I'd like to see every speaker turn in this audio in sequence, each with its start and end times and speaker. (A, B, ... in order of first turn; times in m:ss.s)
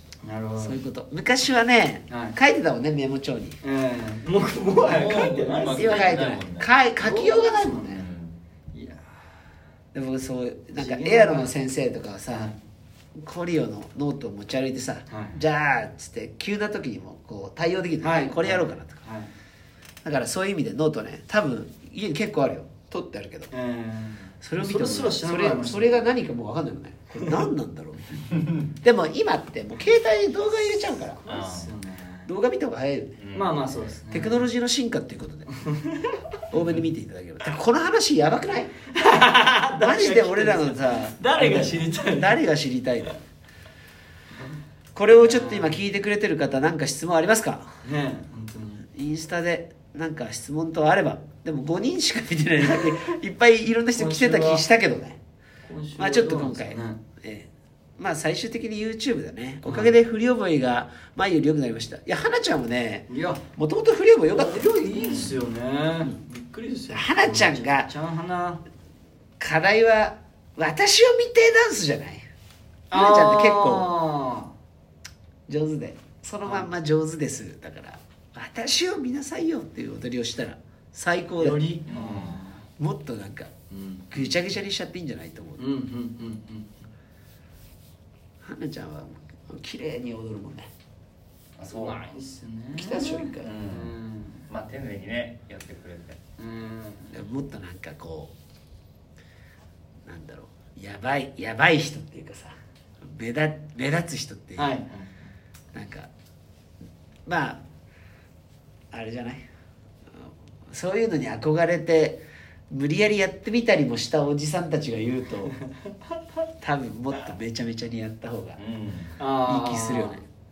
0:00.2-0:00.8 A
0:00.6-0:03.6 B
0:02.1-0:02.4 A
0:03.6-0:06.4 A
0:04.8-0:06.7 C
0:05.6-0:08.1 B
0:07.0-0:08.0 A
0:08.0-0:08.4 C
0:08.7-0:09.0 A
0:09.9-0:12.5 B
0:10.8-0:11.5 A
0:12.3-0:12.6 A
0:13.2-0:19.0 B
0:15.1-0:15.4 A
0:18.0-0:19.3 A
0:20.0-0:23.5 B
0:23.5-0:26.0 A
0:24.4-0:31.2 B
0:31.2-0:32.3 A
0:31.3-0:31.7 C
0:32.2-0:33.2 B
0:33.2-0:33.9 C
0:33.3-0:34.4 A
0:34.1-0:35.5 B
0:35.6-0:36.2 A
0:36.5-0:38.7 B
0:38.9-0:42.4 A
0:39.8-0:43.2 B
0:44.9-0:47.7 B
0:45.2-0:45.8 A
0:47.8-0:48.9 A
0:48.9-0:55.2 B
0:53.9-0:54.6 A
0:55.6-0:57.0 A
0:56.0-1:04.8 B
0:59.6-0:59.9 A
1:03.1-1:03.4 A
1:04.3-1:08.6 A
1:04.9-1:05.4 C
1:06.9-1:07.9 B
1:09.4-1:12.2 B
1:12.9-1:13.9 B
1:12.9-1:14.5 A
1:15.5-1:21.7 B
1:16.4-1:16.7 A
1:21.4-1:22.4 C
1:21.5-1:22.6 A
1:22.8-1:23.5 B
1:23.7-1:24.3 A
1:24.1-1:25.6 B
1:25.6-1:26.7 A
1:28.4-1:30.7 B
1:31.6-1:32.1 C
1:31.7-1:34.5 A
1:32.8-1:33.5 B
1:33.4-1:34.0 C
1:34.5-1:36.2 C
1:36.4-1:37.2 A
1:37.1-1:38.3 B
1:40.0-1:44.8 B
1:44.6-1:45.3 A
1:45.7-1:46.1 B
1:47.2-1:47.6 B
1:48.9-1:49.4 B
1:50.2-1:55.5 B
1:56.6-1:58.6 B
1:58.6-1:59.2 C
1:59.2-2:00.2 A
1:59.4-2:00.2 B